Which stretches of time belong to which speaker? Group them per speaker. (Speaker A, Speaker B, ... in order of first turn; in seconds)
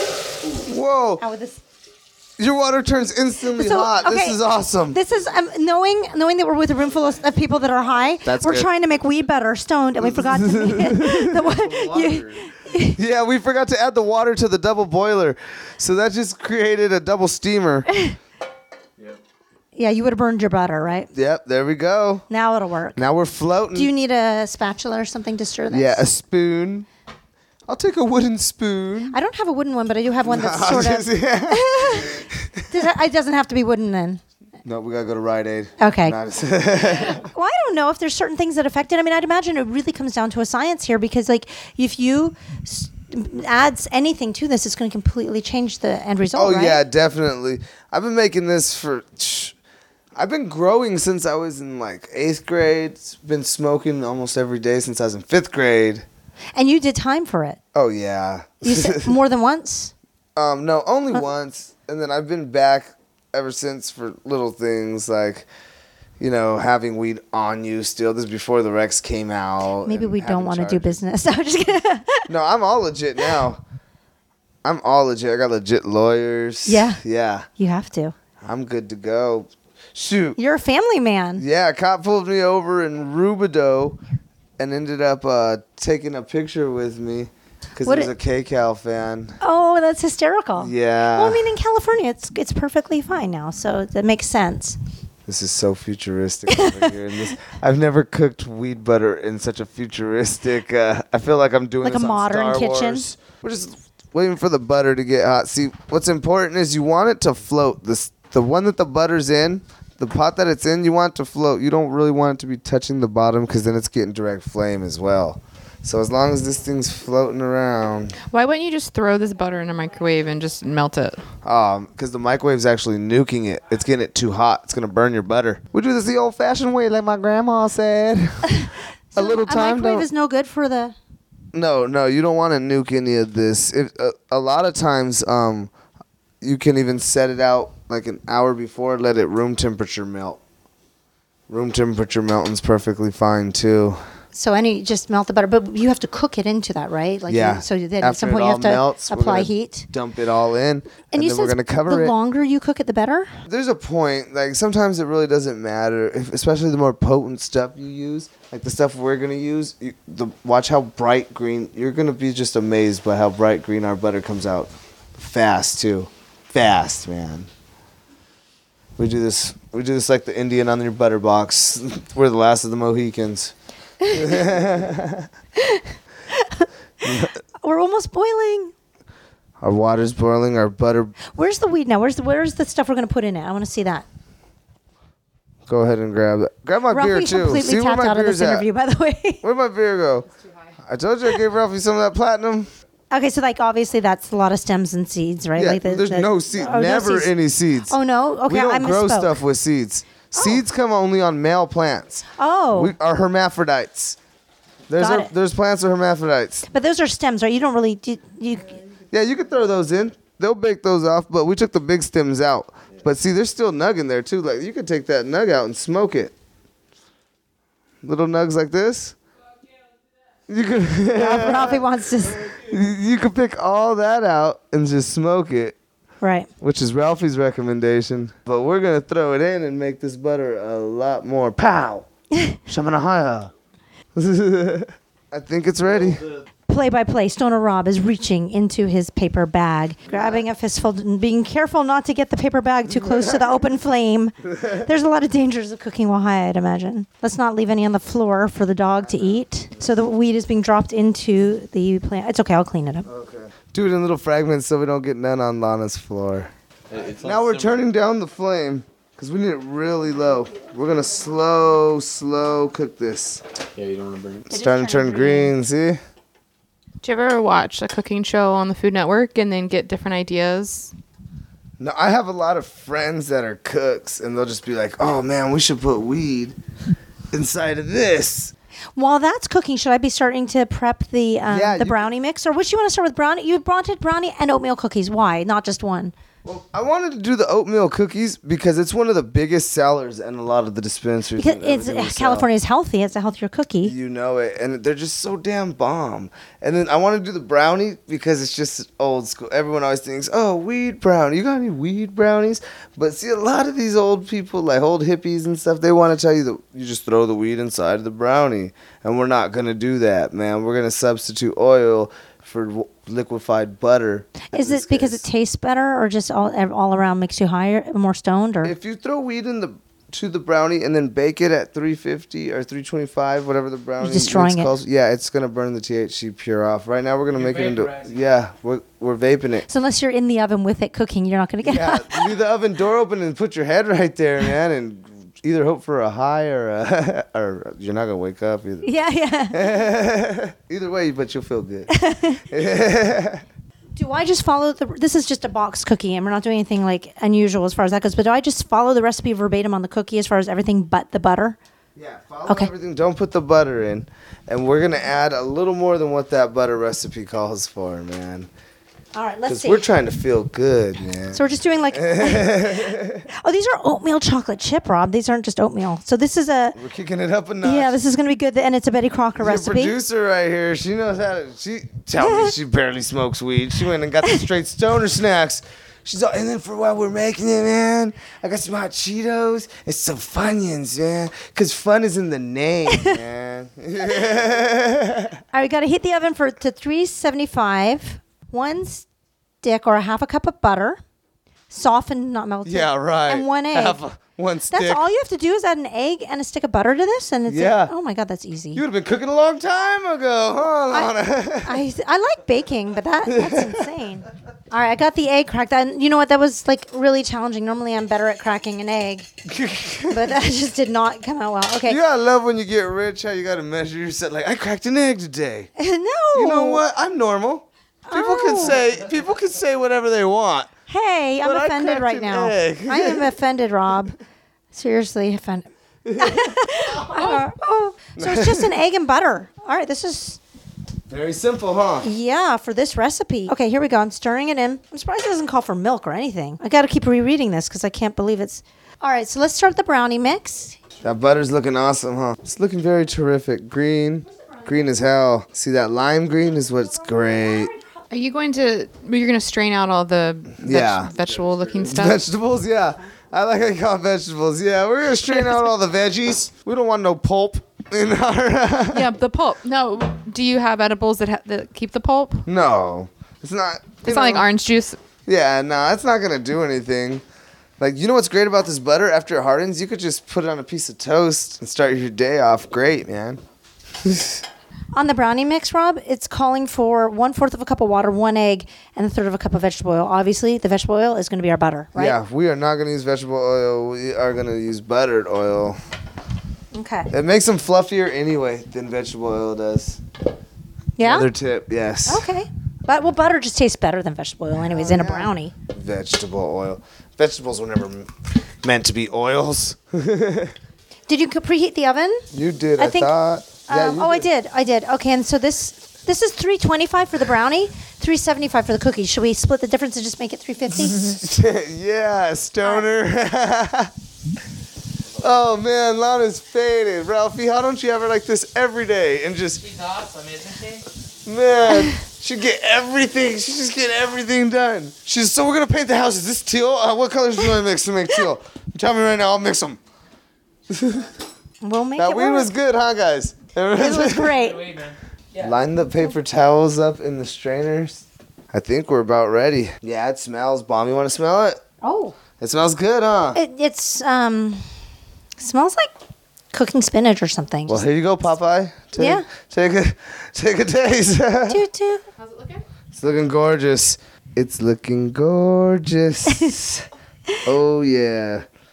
Speaker A: 0.6-1.2, 2.4-5.0, 8.2-8.7, 10.0-11.4, 12.9-17.9, 21.1-22.2, 22.9-23.9, 25.7-26.9, 27.7-29.1, 30.2-32.8, 34.6-37.2, 46.3-49.5, 50.1-56.0, 57.7-59.1, 60.4-65.5, 66.2-71.0, 72.3-73.6, 74.6-77.5, 78.4-80.4, 81.4-84.0, 84.6-89.4, 90.6-91.5, 95.2-118.2, 121.4-130.1, 131.5-135.7, 136.4-140.4, 141.5-144.0, 147.3-152.1, 153.4-167.5, 169.0-173.5, 174.1-175.3, 177.0-177.4, 179.6-181.1, 185.7-188.7, 189.4-190.3, 190.8-192.7, 195.5-204.2, 204.9-206.7, 209.1-216.3, 218.0-219.2, 220.5-221.8, 222.5-225.8, 226.6-232.1, 232.7-233.5, 234.2-236.3, 243.0-243.5, 244.5-244.8, 253.1-256.5, 257.2-263.4, 264.5-266.0, 271.8-276.6, 277.3-278.5, 281.5-282.0, 286.4-292.5, 293.8-315.2, 318.6-329.7, 331.6-338.9, 339.5-343.4, 351.9-358.5, 359.4-363.2, 366.7-368.0, 369.4-385.4, 392.6-395.1, 397.5-397.9, 398.7-401.8, 403.2-403.9, 409.4-410.3, 411.9-415.7, 416.3-420.7, 421.4-423.3, 426.0-427.4, 428.1-428.7, 431.1-432.1, 441.0-447.7, 450.6-451.1, 451.8-459.1, 462.4-464.5, 465.2-467.2, 467.8-473.4, 474.0-474.4, 481.9-485.8, 487.1-490.0, 491.0-492.3, 494.6-500.6, 502.3-504.3, 511.0-513.9, 515.2-519.6, 521.2-529.8, 530.7-531.1, 532.0-534.3, 535.4-541.6, 542.4-543.4, 547.7-551.6, 552.9-556.9, 557.4-558.5
Speaker B: 1.2-1.6, 3.5-13.0, 19.8-21.1, 22.3-23.1, 23.7-26.1, 29.1-34.2, 35.8-36.2, 37.1-46.8, 56.5-57.6, 58.6-59.9, 69.8-72.3, 76.7-77.0, 77.6-78.1, 80.4-81.4, 87.8-88.1, 89.4-94.8, 96.5-97.3, 101.8-103.1, 129.1-130.9, 144.3-149.9, 151.1-153.4, 174.0-174.4, 175.6-178.7, 181.3-184.0, 186.9-189.4, 193.1-197.3, 197.9-199.4, 200.3-200.6, 202.4-202.9, 205.0-205.3, 206.7-208.8, 221.1-222.6, 226.2-226.5, 236.7-253.1, 264.5-265.5, 278.9-286.1, 291.4-293.9, 314.4-318.7, 324.0-324.7, 329.7-332.3, 338.8-339.7, 341.9-342.4, 343.9-351.6, 359.1-359.8, 361.3-366.8, 367.6-369.9, 372.2-372.5, 382.9-383.2, 385.5-389.1, 389.6-391.0, 391.7-394.0, 394.7-398.8, 400.9-409.3, 410.1-412.0, 415.8-416.8, 418.1-418.8, 420.9-424.1, 424.7-430.4, 432.0-440.8, 474.9-482.2, 486.7-487.1, 491.0-491.3, 492.1-495.5, 501.1-502.2, 502.8-511.2, 521.7-521.9, 531.6-532.5, 533.8-534.6, 541.8-542.1, 543.3-544.7, 545.4-545.9, 546.5-547.8, 549.0-549.3, 551.5-552.0
Speaker C: 11.4-12.5, 236.0-236.3, 256.9-257.8, 263.7-264.5, 451.2-451.8
Speaker D: 118.3-121.3, 267.0-270.9, 448.1-452.3, 458.9-462.5, 464.0-465.0, 552.2-552.6
Speaker E: 327.3-328.1, 519.6-520.9, 534.3-535.5